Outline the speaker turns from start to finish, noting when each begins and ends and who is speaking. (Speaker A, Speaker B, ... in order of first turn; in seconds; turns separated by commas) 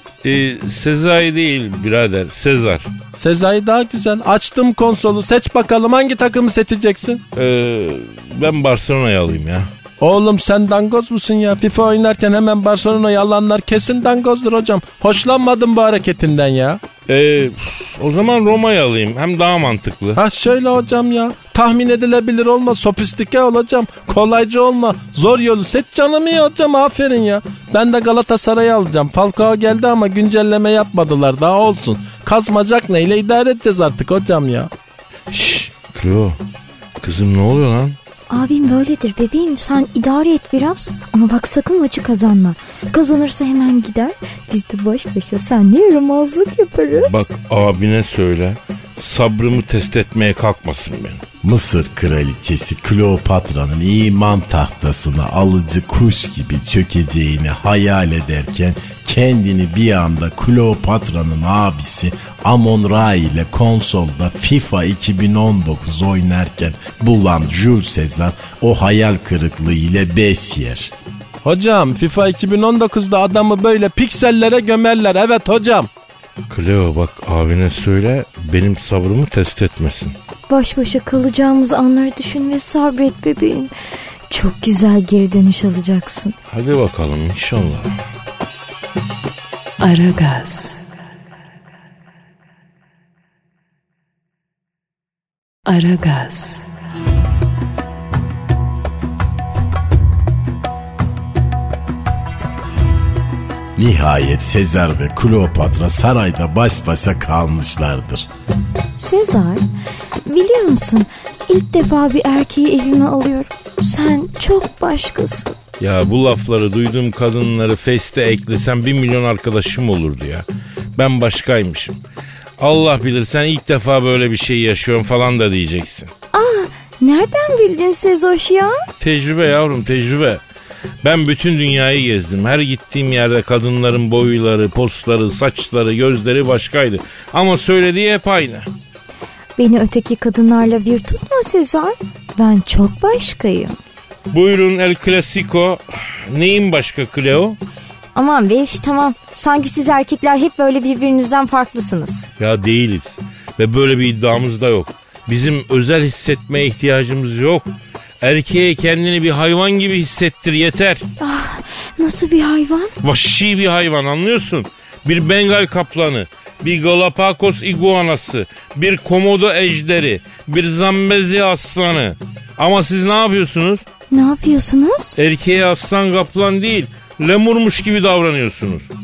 Speaker A: 0.2-2.9, Speaker B: 3.2-7.2, Speaker A: 7.3-9.7, Speaker B: 10.0-16.8, Speaker A: 17.1-20.2, Speaker B: 20.1-34.7, Speaker A: 35.3-36.4, Speaker A: 37.0-38.0, Speaker C: 38.3-47.2, Speaker A: 47.0-51.2, Speaker D: 51.4-70.9, Speaker B: 71.4-75.9, Speaker A: 76.5-80.1, Speaker C: 80.5-83.7, Speaker C: 84.3-86.3, Speaker A: 86.5-87.9, Speaker E: 89.8-90.8, Speaker E: 95.7-96.7, Speaker D: 103.8-108.3, Speaker C: 109.0-109.7, Speaker C: 110.2-115.6, Speaker A: 115.8-120.4, Speaker A: 121.0-121.9, Speaker A: 122.6-126.1, Speaker C: 126.3-128.9, Speaker A: 129.0-130.4, Speaker A: 131.0-138.7, Speaker C: 139.6-143.8, Speaker A: 144.3-147.6, Speaker C: 148.1-152.2, Speaker A: 152.4-157.7, Speaker A: 158.2-161.0, Speaker C: 161.2-162.9, Speaker A: 163.0-173.8, Speaker C: 174.1-175.2, Speaker A: 175.2-178.9